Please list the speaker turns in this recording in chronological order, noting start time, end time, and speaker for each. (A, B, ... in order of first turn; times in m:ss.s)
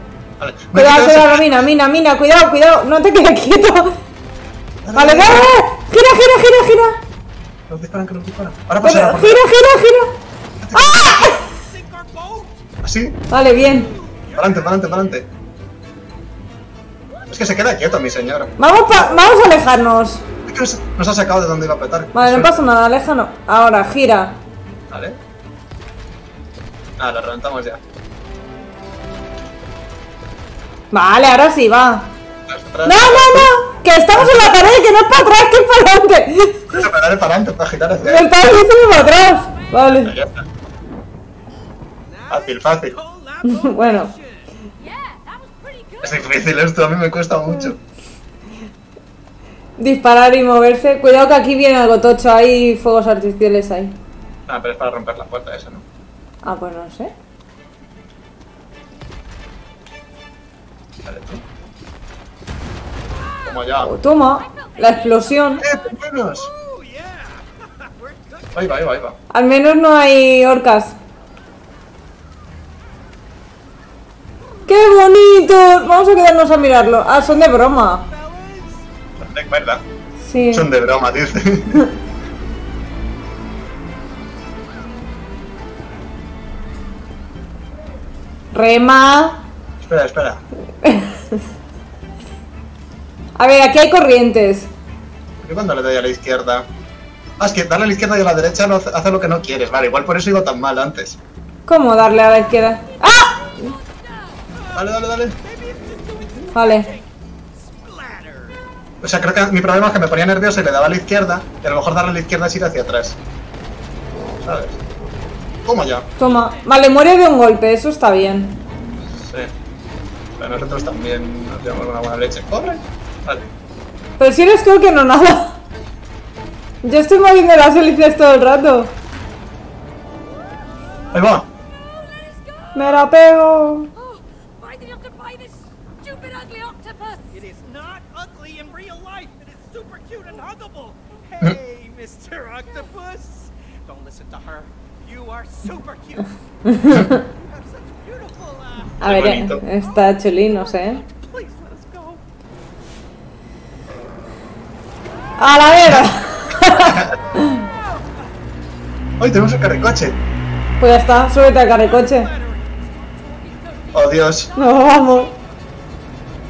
0:00.4-0:01.5 A
0:00.7-0:04.0 B
0:04.8-0:05.5 A
0:04.9-0:07.0 B
0:07.7-0:09.5 A
0:08.8-0:10.1 B
0:10.6-0:11.4 A
0:10.7-0:11.4 B
0:11.4-0:12.6 C
0:12.8-0:13.2 A
0:13.3-0:13.9 B
0:13.6-0:14.6 C
0:14.3-0:15.3 A
0:17.3-0:19.2 A
0:18.6-0:20.2 B
0:20.4-0:22.6 A
0:22.1-0:24.3 B
0:24.9-0:25.2 A
0:27.0-0:27.8 A
0:30.9-0:32.1 B
0:32.5-0:33.5 A
0:32.8-0:36.7 B
0:34.1-0:34.6 A
0:36.7-0:38.3 A
0:38.0-0:40.1 B
0:39.1-0:39.9 D
0:39.9-0:40.4 A
0:42.0-0:44.6 C
0:42.3-0:43.0 A
0:43.4-0:44.1 B
0:44.8-0:46.5 D
0:46.0-0:47.8 A
0:49.8-0:53.9 B
0:54.5-0:55.8 A
0:56.4-0:57.1 B
1:01.0-1:01.4 A
1:03.3-1:03.5 D
1:03.4-1:03.9 A
1:03.8-1:05.6 B
1:04.2-1:05.9 D
1:05.6-1:06.5 A
1:06.3-1:08.7 C
1:08.5-1:09.2 A
1:09.3-1:11.0 B
1:14.7-1:18.0 B
1:18.1-1:18.9 C
1:19.2-1:19.8 A
1:20.2-1:20.7 B
1:20.5-1:21.8 A
1:28.5-1:29.4 B
1:29.8-1:30.4 A
1:30.8-1:31.4 B
1:33.4-1:34.7 B
1:35.4-1:36.6 A
1:37.4-1:41.2 A
1:41.7-1:43.4 B
1:43.2-1:44.5 D
1:44.5-1:48.6 C
1:44.7-1:45.4 A
1:46.5-1:46.9 B
1:49.0-1:53.2 A
1:54.4-1:54.8 A
1:55.6-1:56.0 A
1:56.2-1:58.6 B
1:59.1-1:59.5 A
2:00.4-2:03.5 A
2:04.2-2:05.6 B
2:06.8-2:08.9 B
2:11.0-2:13.1 D
2:11.1-2:11.4 A
2:12.7-2:13.9 B
2:13.9-2:17.4 D
2:17.3-2:26.4 C
2:26.7-2:27.2 B
2:27.1-2:29.0 C
2:29.0-2:29.6 A
2:29.0-2:31.0 B
2:31.0-2:32.2 C
2:35.4-2:37.6 B
2:36.8-2:37.1 A
2:39.2-2:40.2 A
2:40.8-2:42.3 B
2:41.8-2:43.7 C
2:43.6-2:45.3 D
2:43.9-2:44.5 A
2:44.6-2:45.3 B